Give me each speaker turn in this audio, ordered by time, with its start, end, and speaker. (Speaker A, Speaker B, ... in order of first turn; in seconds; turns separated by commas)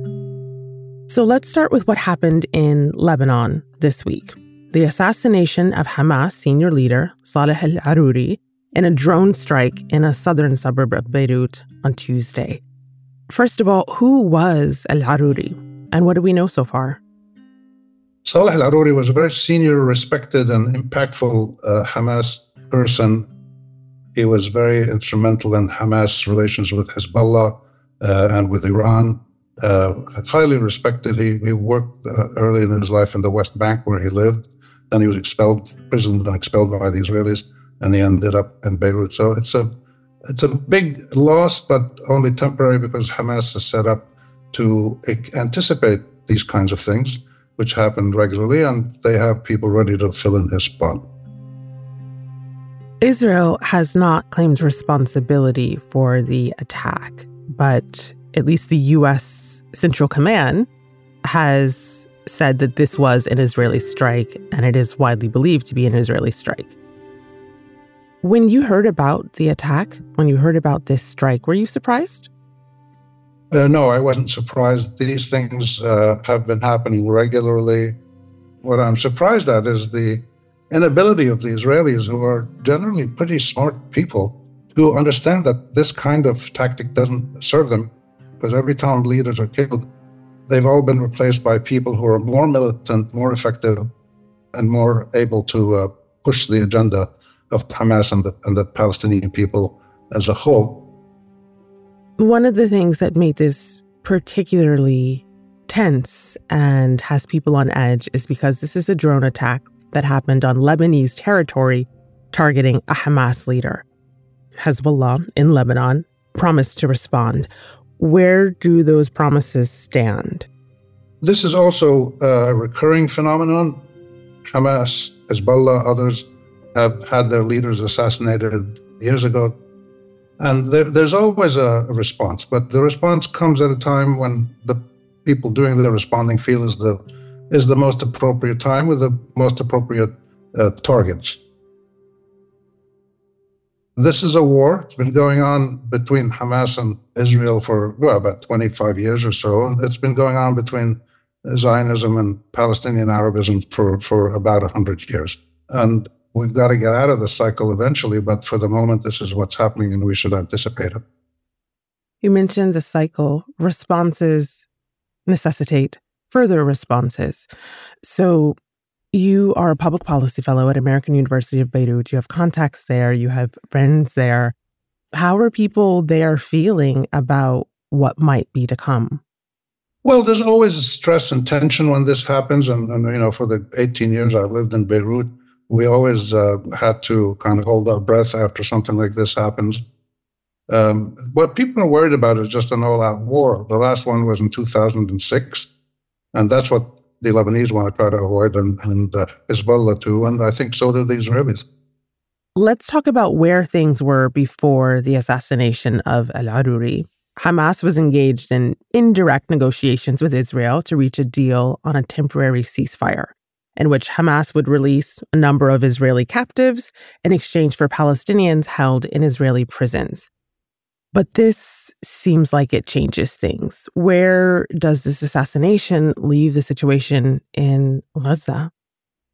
Speaker A: 1.1-12.6, Speaker A: 13.3-17.0, Speaker B: 18.2-23.3, Speaker B: 24.1-39.7, Speaker B: 40.3-51.0, Speaker A: 53.0-60.7, Speaker A: 61.2-66.7, Speaker A: 68.2-72.3, Speaker B: 73.5-78.0, Speaker B: 78.6-89.8, Speaker B: 90.5-93.9, Speaker B: 94.5-100.9, Speaker A: 102.2-113.8, Speaker A: 114.6-120.5, Speaker B: 121.2-123.8, Speaker B: 124.5-129.6, Speaker B: 130.4-141.4, Speaker B: 144.0-161.0, Speaker A: 162.2-164.7, Speaker A: 165.3-167.5, Speaker A: 168.0-168.6, Speaker A: 169.1-174.5, Speaker A: 175.1-179.2, Speaker B: 180.0-189.8, Speaker B: 190.7-195.7, Speaker B: 196.3-201.6, Speaker A: 202.6-220.3, Speaker A: 221.1-228.7